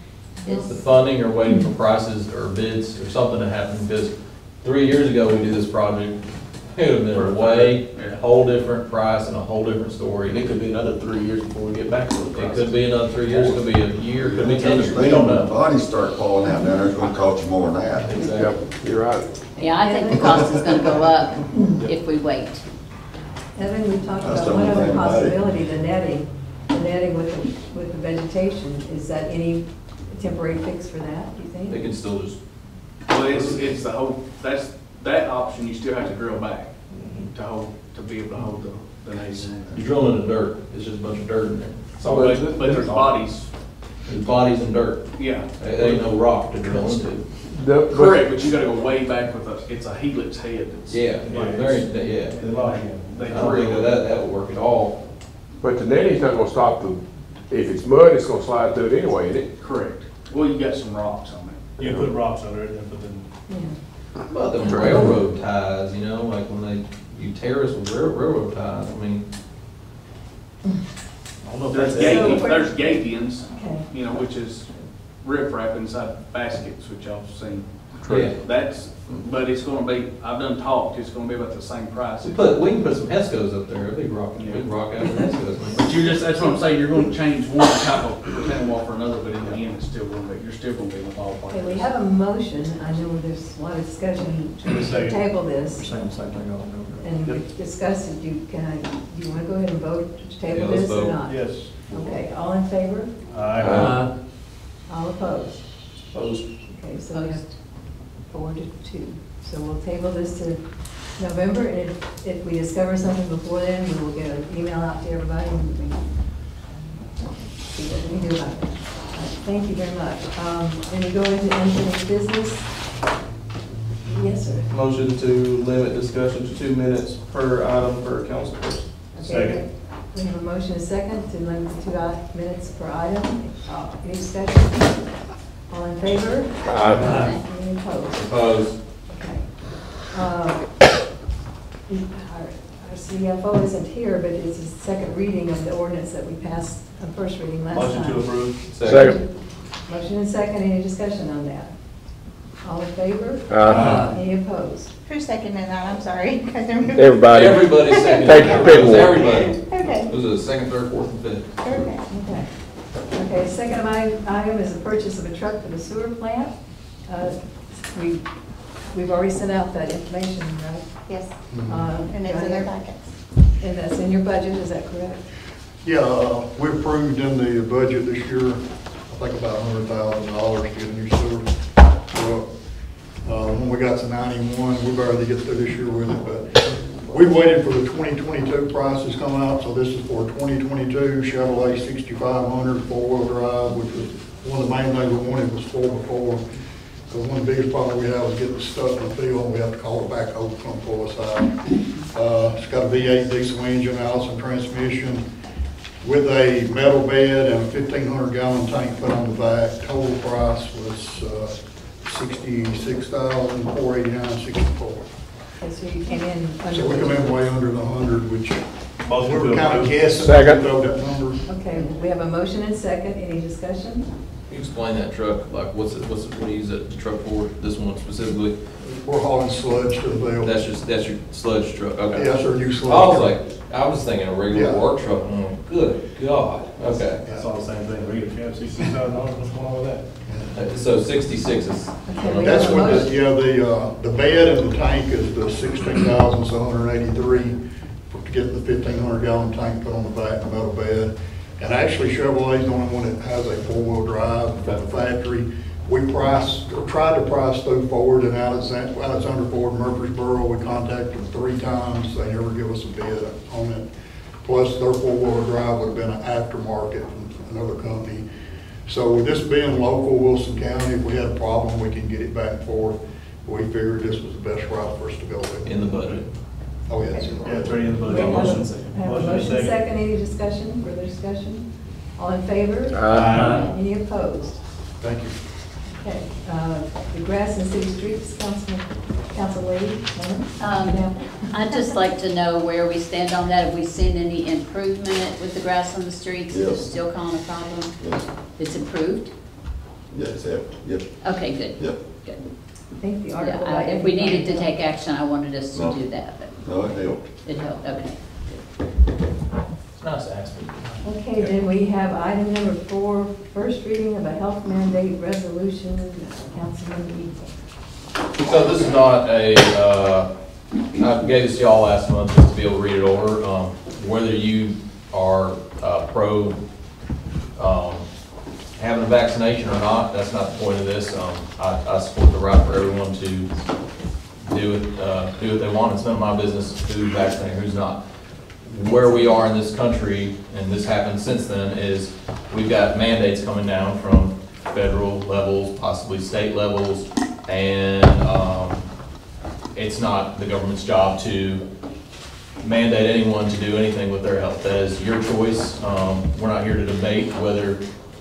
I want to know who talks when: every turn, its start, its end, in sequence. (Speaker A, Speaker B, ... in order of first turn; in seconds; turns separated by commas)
Speaker A: 0.4-0.8, Speaker B: 0.4-0.7, Speaker C: 0.6-10.5, Speaker D: 7.2-8.2, Speaker E: 10.2-12.8, Speaker C: 12.3-15.5, Speaker F: 13.3-13.6, Speaker F: 14.2-18.5, Speaker E: 18.1-18.5, Speaker G: 18.3-19.3, Speaker A: 19.6-22.7, Speaker B: 19.6-20.7, Speaker F: 20.6-20.9, Speaker B: 21.5-21.8, Speaker B: 23.6-31.8, Speaker F: 24.2-25.4, Speaker C: 31.7-32.4, Speaker D: 33.1-36.7, Speaker E: 36.9-37.3, Speaker D: 37.3-39.9, Speaker C: 39.7-42.0, Speaker D: 42.0-43.5, Speaker G: 42.0-43.2, Speaker C: 44.1-47.3, Speaker D: 45.1-46.8, Speaker G: 47.5-48.4, Speaker D: 47.7-53.9, Speaker C: 50.9-52.4, Speaker H: 51.3-53.9, Speaker C: 53.3-55.0, Speaker G: 55.6-59.5, Speaker D: 59.6-61.7, Speaker H: 61.8-63.3, Speaker G: 61.8-62.1, Speaker B: 63.5-63.8, Speaker C: 64.3-69.2, Speaker B: 64.6-65.1, Speaker E: 71.4-72.5, Speaker D: 71.7-74.7, Speaker B: 72.0-73.9, Speaker D: 75.2-82.6, Speaker C: 78.0-78.4, Speaker C: 82.2-85.8, Speaker D: 84.4-84.7, Speaker D: 85.8-91.9, Speaker B: 91.5-95.9, Speaker H: 94.7-95.2, Speaker I: 95.7-97.1, Speaker B: 97.0-103.1, Speaker C: 100.5-101.2, Speaker H: 101.2-102.2, Speaker H: 103.3-103.9, Speaker G: 103.6-104.0, Speaker I: 103.7-104.2, Speaker B: 104.9-105.6, Speaker E: 106.1-106.5, Speaker B: 106.7-107.6, Speaker A: 107.1-107.5, Speaker B: 108.2-116.1, Speaker B: 117.5-122.7, Speaker B: 124.1-124.7, Speaker E: 124.7-129.1, Speaker B: 129.1-135.0, Speaker H: 129.2-129.6, Speaker B: 135.7-138.2, Speaker G: 136.7-137.2, Speaker I: 137.0-137.3, Speaker C: 138.1-138.8, Speaker B: 139.1-140.7, Speaker B: 141.9-151.7, Speaker H: 147.7-148.8, Speaker C: 148.7-149.1, Speaker G: 148.8-149.2, Speaker B: 152.6-154.9, Speaker G: 153.5-154.0, Speaker J: 155.1-157.2, Speaker G: 156.9-159.2, Speaker C: 157.3-161.5, Speaker J: 157.9-160.1, Speaker J: 161.6-162.0, Speaker B: 162.1-162.5, Speaker B: 163.1-166.6, Speaker B: 167.1-168.2, Speaker B: 168.9-171.1, Speaker J: 171.1-171.4, Speaker K: 171.5-171.9, Speaker B: 171.7-172.8, Speaker J: 172.1-173.0, Speaker B: 173.6-175.2, Speaker K: 175.8-181.5, Speaker K: 182.1-182.5, Speaker K: 183.2-196.4, Speaker K: 197.1-205.2, Speaker K: 206.0-215.1, Speaker B: 215.6-217.4, Speaker K: 216.7-221.4, Speaker H: 219.1-220.6, Speaker G: 220.2-220.6, Speaker B: 221.5-224.1, Speaker C: 224.5-228.6, Speaker K: 228.8-230.6, Speaker C: 230.4-237.2, Speaker K: 232.1-233.4, Speaker K: 234.5-234.8, Speaker H: 237.2-240.1, Speaker K: 240.3-240.5, Speaker C: 240.5-243.1, Speaker B: 242.1-243.1, Speaker K: 242.4-247.6, Speaker K: 248.1-263.9, Speaker C: 254.6-255.1, Speaker K: 264.4-268.2, Speaker K: 268.9-276.2, Speaker C: 275.6-276.2, Speaker K: 276.9-278.3, Speaker B: 277.1-277.4, Speaker H: 277.4-279.8, Speaker B: 278.0-284.6, Speaker E: 278.2-278.9, Speaker G: 282.9-283.5, Speaker H: 283.1-283.6, Speaker I: 283.3-283.7, Speaker K: 285.0-285.4, Speaker B: 285.9-291.5, Speaker A: 290.6-299.3, Speaker F: 296.5-296.9, Speaker F: 298.0-298.2, Speaker F: 300.1-302.0, Speaker A: 301.2-302.4, Speaker B: 303.0-304.7, Speaker A: 303.4-306.6, Speaker F: 305.7-306.0, Speaker F: 306.6-307.3, Speaker A: 307.4-308.4, Speaker C: 310.0-311.5, Speaker B: 311.0-317.6, Speaker C: 318.4-320.3, Speaker C: 320.9-326.6, Speaker C: 327.6-328.1, Speaker C: 328.8-333.5, Speaker C: 334.4-338.0, Speaker C: 338.6-348.9, Speaker C: 349.8-351.6, Speaker C: 352.6-357.8